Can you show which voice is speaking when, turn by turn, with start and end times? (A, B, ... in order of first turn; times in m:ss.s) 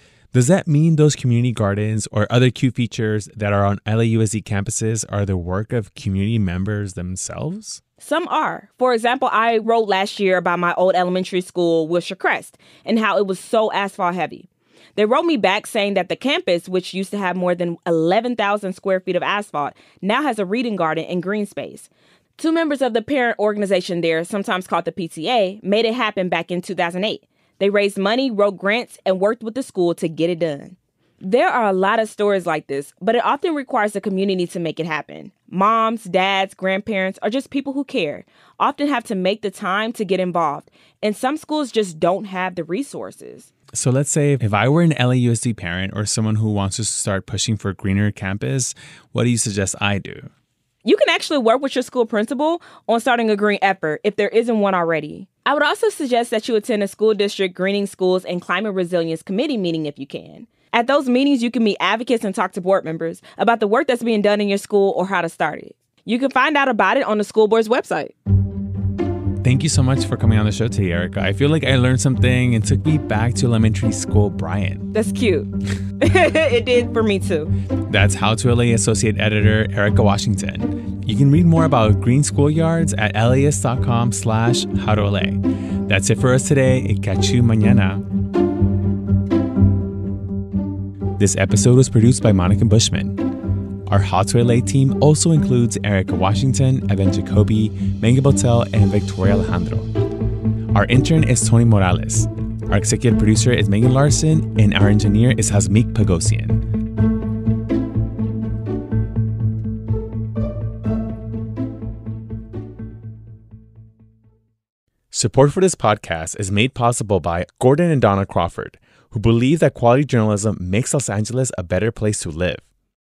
0:00.3-0:07.8 A
0:08.0-0:43.5 B
0:43.8-0:50.3 A
0:50.8-1:08.1 B
1:09.4-1:14.8 A
1:14.9-1:17.5 B
1:17.9-1:28.0 A
1:31.2-1:33.2 A
1:33.9-1:39.9 A
1:40.7-1:46.6 A
1:55.1-2:02.6 A